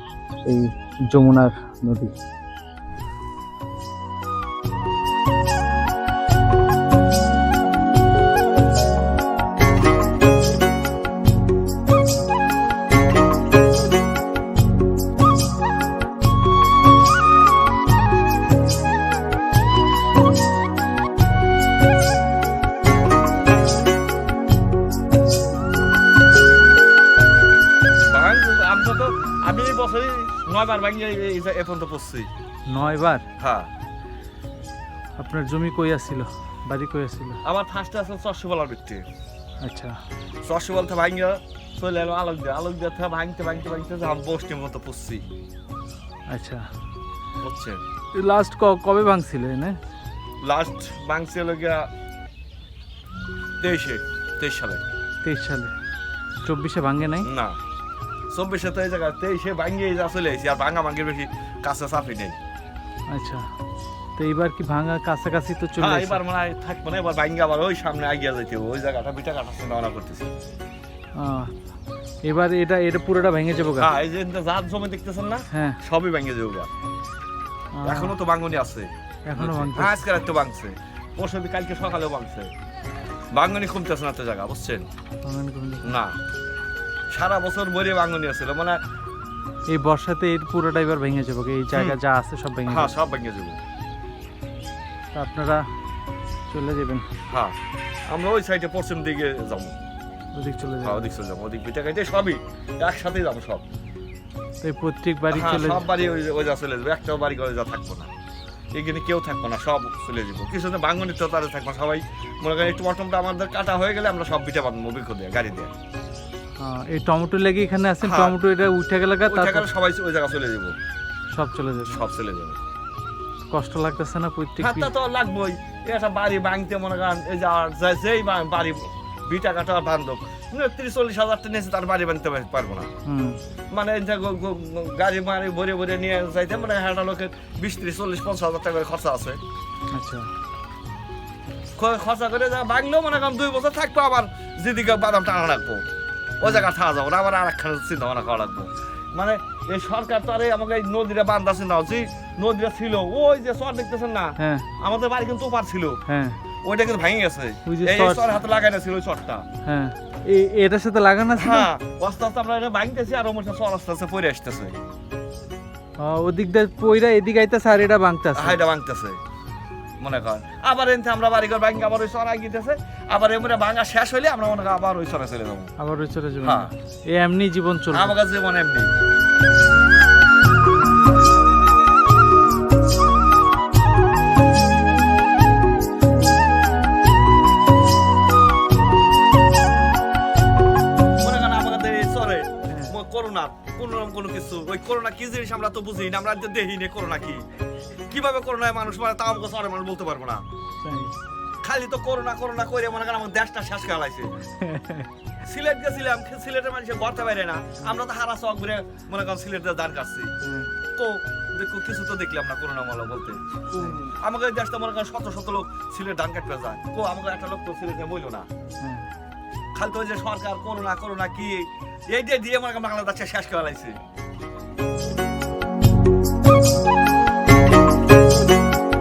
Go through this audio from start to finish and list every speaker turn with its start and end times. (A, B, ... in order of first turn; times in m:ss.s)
0:00.4-0:02.1 A
0:28.1-0:32.3 B
0:32.7-0:33.2 A
0:33.4-0:33.7 B
0:35.2-0:37.4 A
0:37.5-0:39.0 B
0:39.6-0:40.0 A
0:40.4-0:45.2 B
0:46.3-0:46.6 A
0:47.4-0:47.8 B
0:48.1-0:49.8 A
0:50.4-0:51.8 B
0:53.6-0:54.8 B
0:55.2-0:55.7 A
0:56.4-0:57.3 A
0:57.2-0:57.6 B
0:58.3-1:02.4 B
1:03.1-1:03.4 A
1:04.2-1:06.2 A
1:05.8-1:10.3 B
1:11.2-1:11.5 A
1:12.2-1:13.9 A
1:13.8-1:16.7 B
1:15.5-1:15.8 A
1:17.8-1:18.1 A
1:17.9-1:22.5 B
1:19.3-1:20.0 A
1:23.3-1:24.9 B
1:25.2-1:25.9 A
1:25.8-1:26.2 B
1:27.1-1:28.8 B
1:29.7-1:33.0 A
1:31.7-1:32.0 B
1:32.7-1:33.6 B
1:35.1-1:35.6 A
1:36.5-1:37.0 A
1:38.1-1:39.8 B
1:40.4-1:41.1 A
1:40.8-1:43.6 B
1:44.6-1:45.8 A
1:45.3-1:48.1 B
1:48.8-1:55.7 B
1:56.6-1:59.7 A
1:58.0-1:58.4 B
1:59.3-2:00.7 B
2:01.3-2:02.0 A
2:01.9-2:02.6 B
2:03.5-2:04.9 A
2:04.6-2:12.9 B
2:13.1-2:13.4 A
2:13.7-2:19.4 B
2:19.9-2:20.3 A
2:21.8-2:25.8 B
2:26.4-2:36.0 B
2:34.4-2:34.6 A
2:36.1-2:36.4 A
2:36.6-2:39.4 B
2:37.7-2:38.4 A
2:39.6-2:41.7 A
2:41.4-2:44.8 B
2:46.0-2:48.6 A
2:48.4-2:49.2 B
2:50.0-2:55.7 B
2:55.8-2:58.1 A
2:56.4-2:56.7 B
2:57.9-2:58.9 B
3:11.2-3:17.4 B
3:18.1-3:20.4 B
3:20.8-3:21.1 A
3:21.6-3:24.3 B
3:24.6-3:25.1 A
3:25.4-3:30.3 B
3:30.4-3:30.7 A
3:31.0-3:38.5 B
3:33.8-3:34.1 A
3:39.8-3:44.0 B